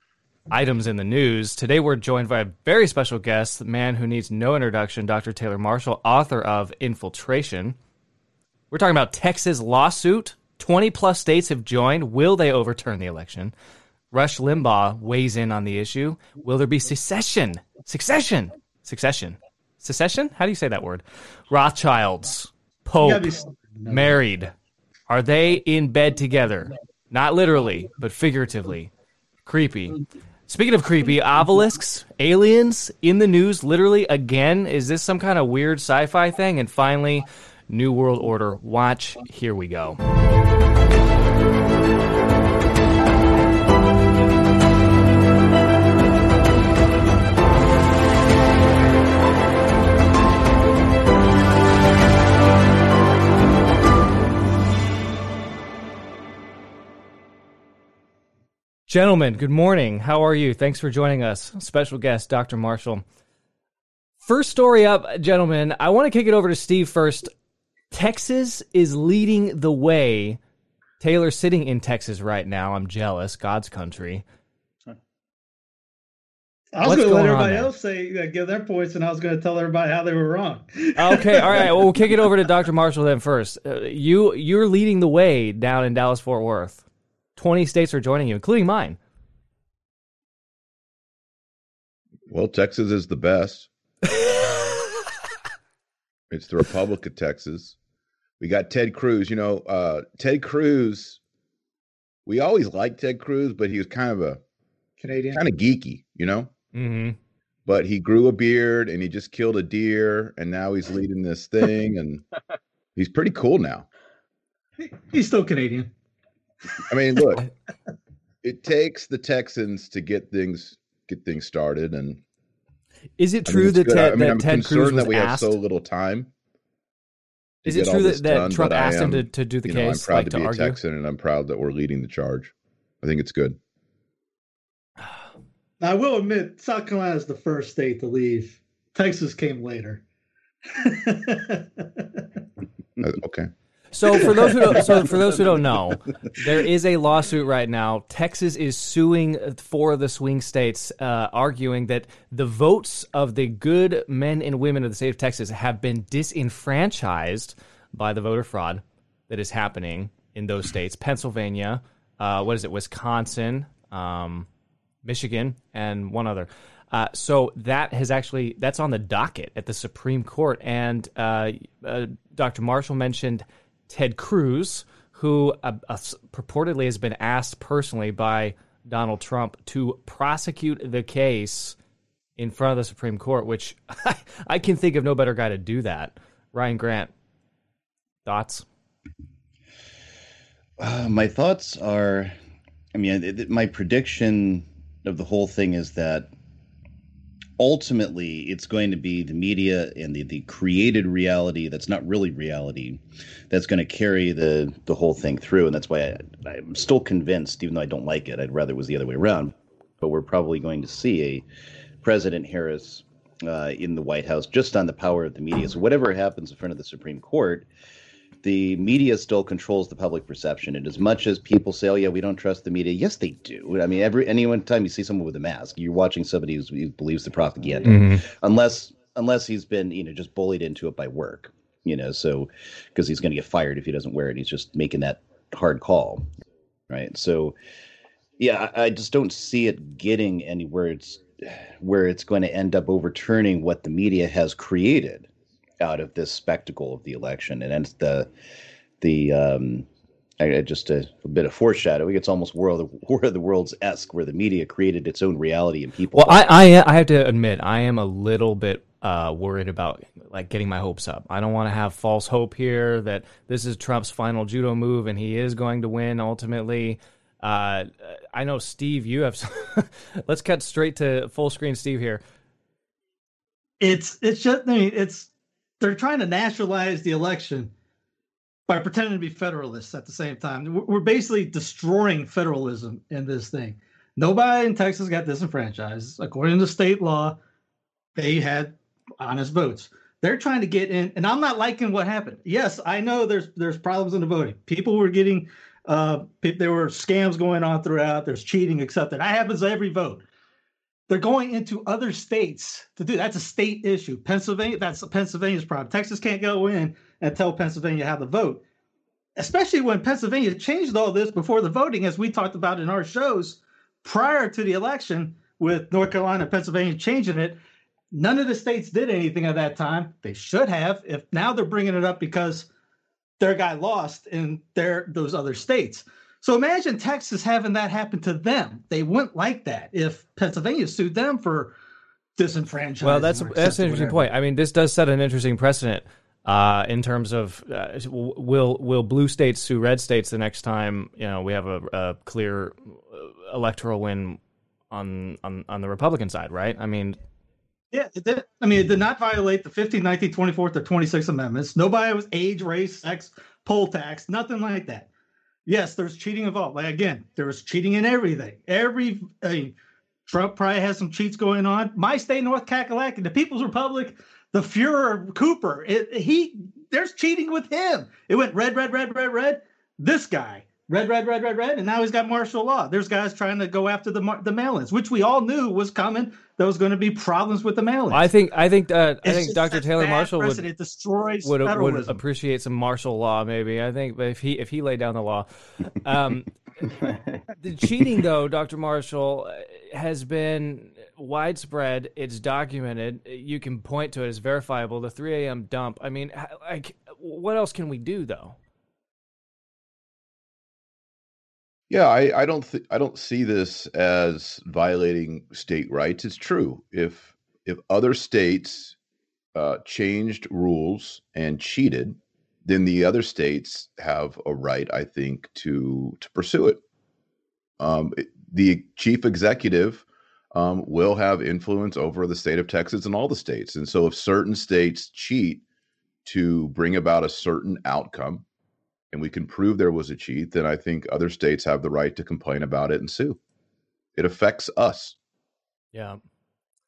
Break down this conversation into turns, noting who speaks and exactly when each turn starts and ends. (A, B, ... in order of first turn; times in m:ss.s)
0:00.5-0:07.8 A
0:08.7-0:13.5 A
0:14.1-0:24.5 A
0:23.0-0:24.2 B
0:25.1-0:28.9 A
0:29.4-0:40.0 A
0:58.9-1:03.0 A
1:04.2-1:07.3 A
1:07.9-1:10.4 A
1:11.0-1:14.2 A
1:16.7-1:21.7 B
1:16.8-1:17.7 A
1:21.0-1:26.8 A
1:27.4-1:29.0 A
1:32.3-1:33.7 C
1:36.3-1:37.8 C
1:38.4-1:41.2 C
1:42.3-1:44.4 C
1:45.0-1:45.4 B
1:45.4-1:46.5 C
1:46.7-1:47.2 A
1:47.7-1:52.3 C
1:53.0-1:53.9 C
1:54.8-1:55.9 B
1:56.9-1:57.5 C
1:58.4-2:02.2 C
2:03.2-2:05.6 A
2:03.5-2:06.3 C
2:07.6-2:13.6 C
2:07.6-2:10.8 A
2:15.8-2:20.0 B
2:20.7-2:22.3 B
2:23.0-2:23.5 C
2:23.9-2:44.5 A
2:45.0-3:01.8 A
3:02.4-3:07.1 A
3:08.2-3:08.7 A
3:10.8-3:12.4 D
3:12.9-3:16.3 D
3:17.6-3:31.4 D
3:32.0-3:37.7 D
3:38.4-3:56.3 D
3:47.8-3:48.2 A
3:56.9-3:57.6 D
3:58.4-4:05.3 D
4:05.8-4:08.3 D
4:09.0-4:09.9 D
4:10.4-4:16.4 D
4:16.2-4:32.2 A
4:33.8-4:37.7 B
4:38.7-4:47.4 B
4:48.2-5:00.2 B
5:01.1-5:08.6 B
5:09.4-5:17.6 B
5:18.1-5:22.7 B
5:23.4-5:31.8 B
5:32.4-5:34.2 B
5:33.0-5:44.4 A
5:44.9-5:47.2 A
5:47.9-5:55.1 B
5:55.7-5:59.8 B
6:00.3-6:18.2 B
6:18.1-6:20.7 A
6:19.2-6:22.2 B
6:21.4-6:26.9 A
6:27.5-6:38.6 A
6:41.9-6:49.0 C
6:49.6-6:56.8 C
6:57.8-7:05.6 C
7:06.2-7:08.4 C
7:09.1-7:13.4 C
7:14.2-7:15.2 C
7:15.9-7:16.2 A